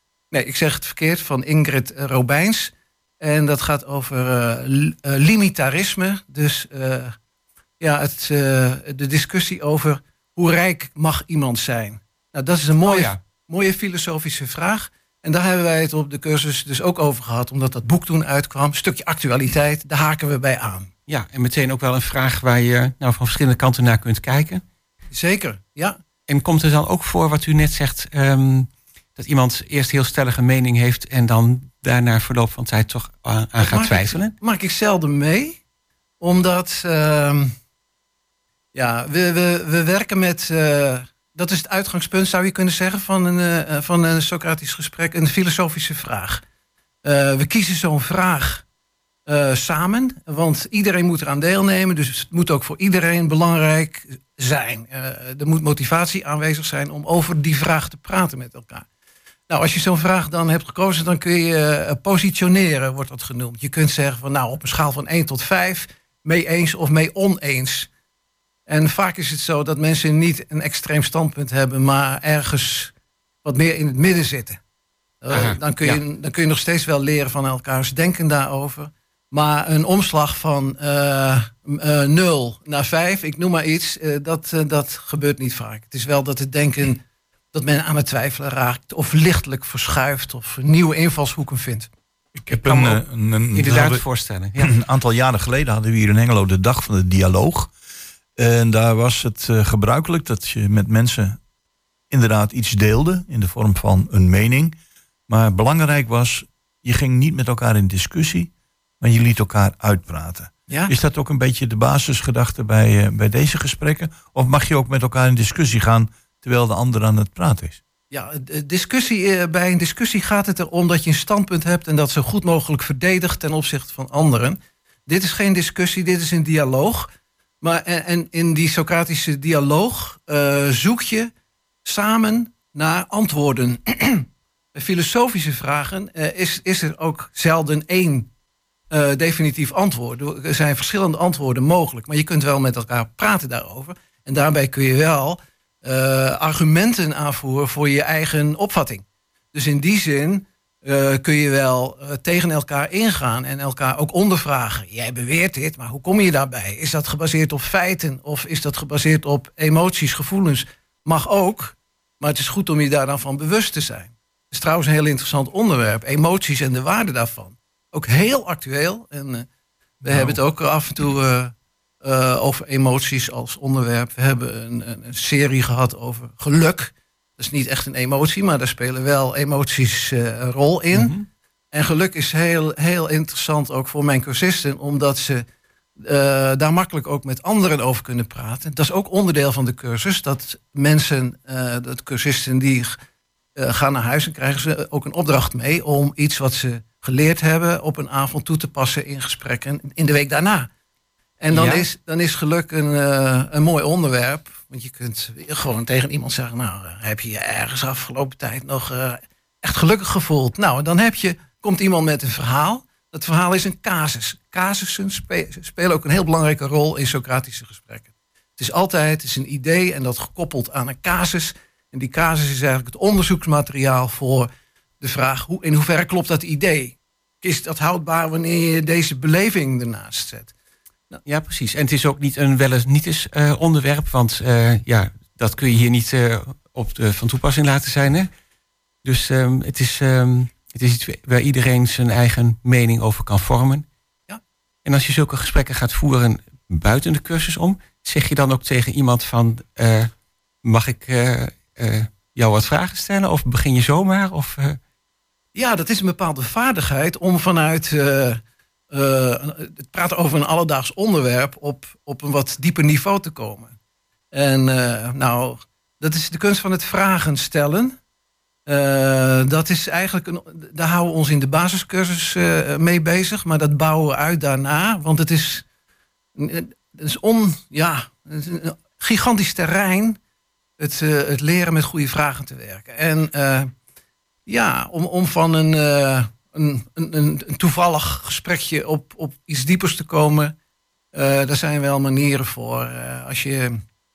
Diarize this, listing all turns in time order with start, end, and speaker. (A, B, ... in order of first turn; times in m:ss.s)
0:00.3-0:07.2 A
0:07.8-0:20.9 A
0:12.8-0:13.2 B
0:21.1-0:24.6 B
0:25.1-0:26.0 A
0:26.3-0:34.3 B
0:33.6-0:35.6 A
0:36.2-0:37.5 A
0:38.7-0:46.4 A
0:47.0-0:48.6 A
0:49.3-0:58.9 A
0:59.5-1:07.9 A
1:08.7-1:12.9 A
1:13.4-1:14.6 A
1:15.2-1:31.9 A
1:15.3-1:16.0 B
1:32.5-1:34.0 C
1:32.5-1:33.0 B
1:33.5-1:34.7 B
1:34.6-1:37.7 C
1:38.4-1:41.4 C
1:42.1-1:44.8 C
1:45.3-1:57.8 C
1:58.1-2:07.1 A
2:07.6-2:11.3 A
2:11.8-2:18.3 A
2:18.9-2:49.4 A
2:50.0-3:01.1 A
3:00.9-3:01.3 B
3:01.7-3:05.4 A
3:06.0-3:13.0 A
3:13.6-3:20.7 A
3:21.4-3:44.5 A
3:21.5-3:21.8 B
3:45.0-3:50.5 A
3:51.3-3:58.3 B
3:59.0-4:03.9 B
4:04.8-4:10.1 B
4:10.6-4:14.8 B
4:15.6-4:18.4 A
4:18.9-4:23.7 A
4:24.3-4:28.0 A
4:28.7-4:35.6 A
4:36.4-4:40.2 A
4:40.8-4:43.7 A
4:44.4-4:50.6 A
4:51.1-4:53.8 A